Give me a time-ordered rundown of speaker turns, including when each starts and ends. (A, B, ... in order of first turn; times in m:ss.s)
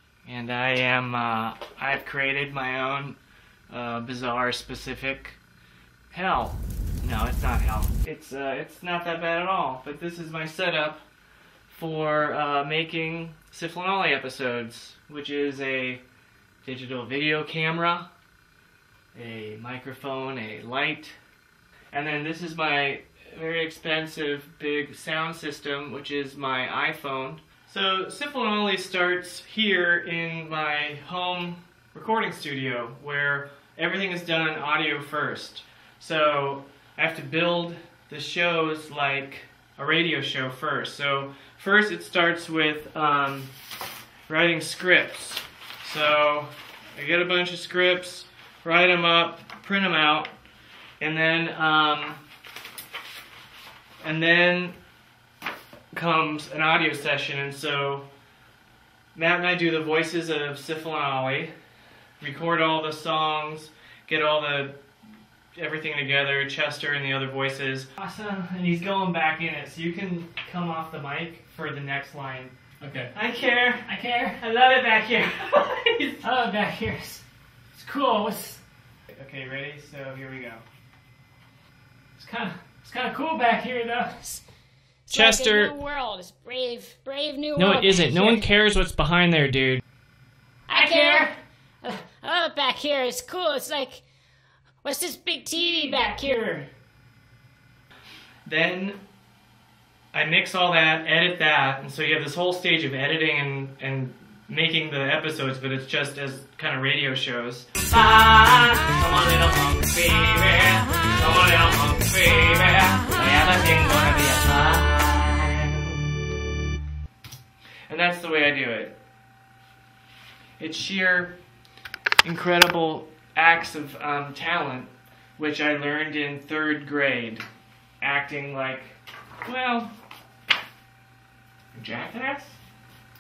0:00.2-0:03.2 A
0:03.7-0:05.4 A
0:06.1-0:11.0 A
0:11.7-0:16.0 A
0:16.6-0:18.1 A
0:19.2-0:21.2 A
0:21.9-0:43.5 A
0:44.3-0:50.3 A
0:51.0-0:52.2 A
0:54.0-0:54.8 A
0:55.9-0:58.1 A
0:59.2-1:01.5 A
1:02.2-1:04.8 A
1:05.6-1:12.6 A
1:12.8-1:13.1 B
1:13.1-1:13.9 A
1:13.9-1:14.4 B
1:14.4-1:16.2 A
1:16.2-1:17.2 B
1:17.8-1:18.6 B
1:19.1-1:20.6 A
1:22.2-1:24.4 B
1:25.1-1:28.4 C
1:25.1-1:25.7 A
1:27.6-1:29.8 A
1:30.7-1:31.3 C
1:30.8-1:31.3 B
1:31.8-1:34.0 C
1:34.8-1:36.6 C
1:38.5-1:39.0 A
1:40.1-1:56.0 A
1:57.9-1:59.0 A
2:00.6-2:01.4 A
2:02.2-2:07.4 A
2:08.0-2:09.9 A
2:11.7-2:12.6 A